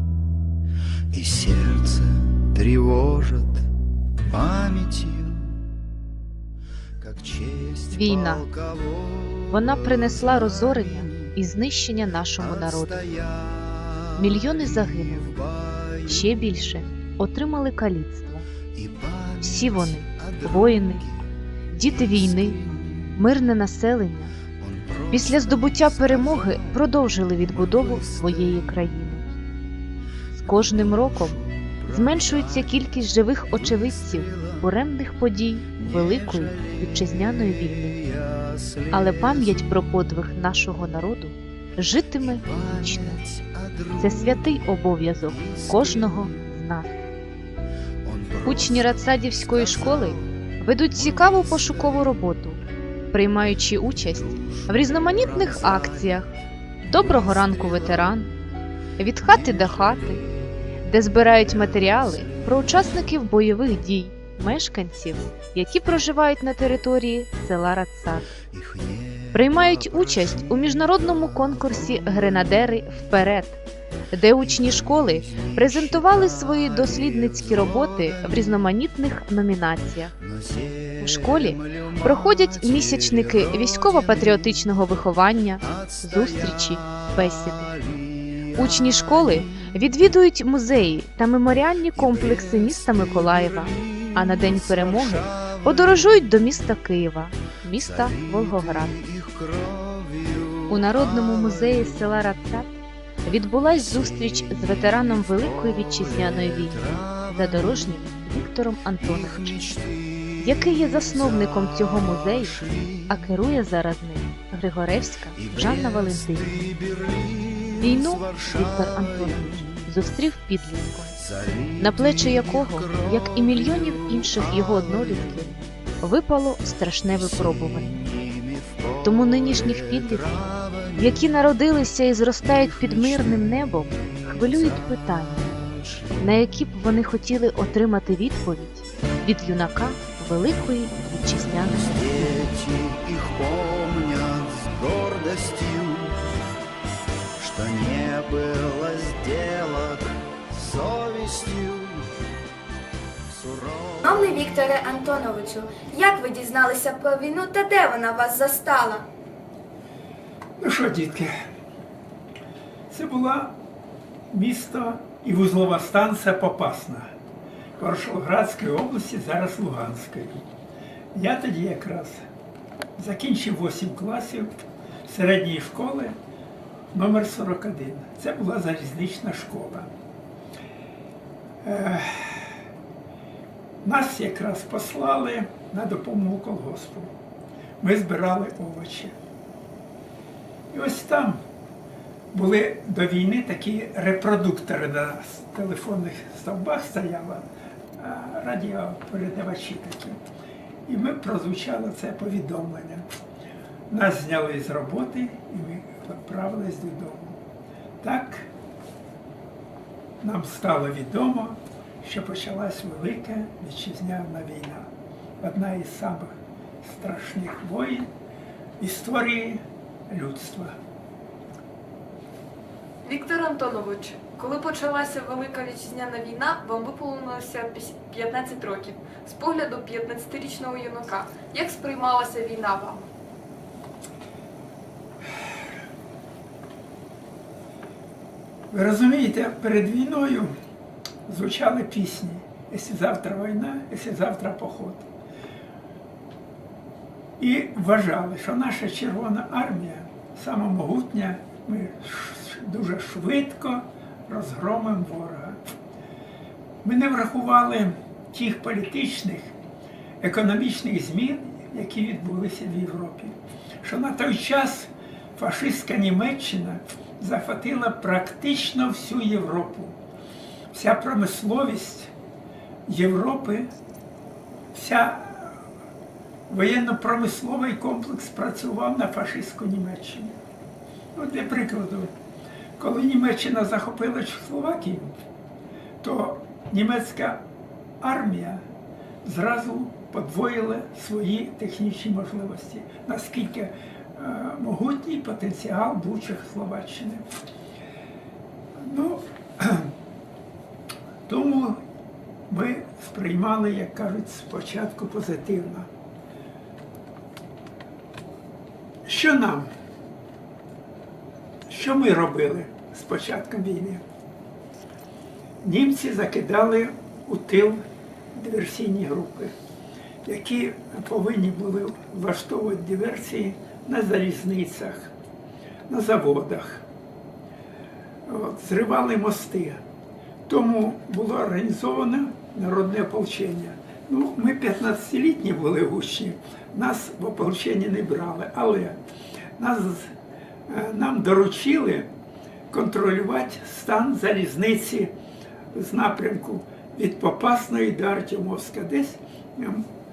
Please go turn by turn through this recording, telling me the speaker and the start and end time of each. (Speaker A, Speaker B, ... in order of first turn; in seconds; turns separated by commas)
Speaker A: 1.1-3.7, Speaker A: 4.2-5.6, Speaker A: 7.0-11.3, Speaker B: 7.9-8.4, Speaker B: 9.5-13.2, Speaker A: 12.4-16.4, Speaker B: 14.1-15.4, Speaker B: 16.1-18.4, Speaker A: 18.7-21.3, Speaker B: 19.4-21.0, Speaker B: 21.7-24.3, Speaker A: 21.9-23.1, Speaker A: 24.6-26.8, Speaker B: 25.1-29.3, Speaker A: 27.4-28.7, Speaker A: 30.4-32.9, Speaker B: 30.4-38.0, Speaker A: 33.5-34.7, Speaker A: 35.8-39.7, Speaker B: 38.9-43.2, Speaker A: 42.2-44.7, Speaker B: 44.0-46.9, Speaker A: 45.3-46.5, Speaker A: 48.0-52.2, Speaker B: 48.4-52.6, Speaker B: 53.1-56.3, Speaker A: 53.8-56.2, Speaker A: 56.8-58.2, Speaker B: 56.8-58.3, Speaker B: 59.0-60.2, Speaker A: 59.2-60.8, Speaker B: 60.8-68.3, Speaker A: 61.4-62.9, Speaker A: 68.5-72.6, Speaker B: 69.3-73.6, Speaker B: 74.1-80.1, Speaker A: 74.4-78.5, Speaker A: 80.2-84.6, Speaker B: 81.0-87.7, Speaker A: 85.7-89.6, Speaker B: 88.5-99.0, Speaker A: 91.9-96.1, Speaker A: 97.8-102.0, Speaker B: 100.7-102.7, Speaker B: 103.2-109.7, Speaker A: 103.6-108.1, Speaker A: 109.0-113.2, Speaker B: 110.4-116.7, Speaker A: 115.3-119.9, Speaker B: 117.8-121.1, Speaker A: 121.2-125.5, Speaker B: 121.8-128.0, Speaker A: 127.1-131.2, Speaker B: 129.0-130.4, Speaker B: 130.9-135.6, Speaker A: 132.4-136.2, Speaker B: 136.2-142.3, Speaker A: 141.7-146.3, Speaker A: 147.4-152.1, Speaker A: 153.3-154.1, Speaker C: 154.1-159.1, Speaker D: 160.6-161.3, Speaker D: 162.9-163.6, Speaker D: 164.3-167.1, Speaker D: 167.8-170.5, Speaker D: 171.1-172.2, Speaker D: 173.0-174.5, Speaker D: 175.1-176.1, Speaker D: 176.9-179.9, Speaker D: 181.6-182.5, Speaker D: 183.8-187.1, Speaker D: 187.8-189.1, Speaker D: 190.7-191.4, Speaker D: 192.3-197.4, Speaker D: 198.0-200.2, Speaker D: 200.9-203.0, Speaker D: 203.9-207.4, Speaker D: 208.0-208.5, Speaker D: 210.2-214.9, Speaker D: 215.4-218.1, Speaker D: 218.8-220.7, Speaker E: 223.0-233.1, Speaker D: 238.7-240.5, Speaker D: 241.3-245.0, Speaker D: 247.4-255.6, Speaker D: 256.8-259.5, Speaker D: 260.2-269.9, Speaker D: 270.7-272.1, Speaker D: 272.9-273.7, Speaker D: 274.7-275.6, Speaker D: 276.5-280.3, Speaker D: 281.1-282.1, Speaker D: 282.8-285.1, Speaker D: 286.0-287.4, Speaker D: 288.0-288.6, Speaker D: 289.2-297.2, Speaker D: 298.8-299.9, Speaker D: 301.3-301.8, Speaker D: 302.5-305.9, Speaker D: 309.1-309.7, Speaker D: 311.7-314.0, Speaker D: 315.6-317.8, Speaker D: 318.3-319.5, Speaker D: 320.2-325.1, Speaker D: 325.9-326.8, Speaker D: 328.3-329.8, Speaker D: 330.5-339.0, Speaker D: 339.6-340.1, Speaker D: 340.7-342.1, Speaker D: 342.7-345.1, Speaker D: 345.7-349.8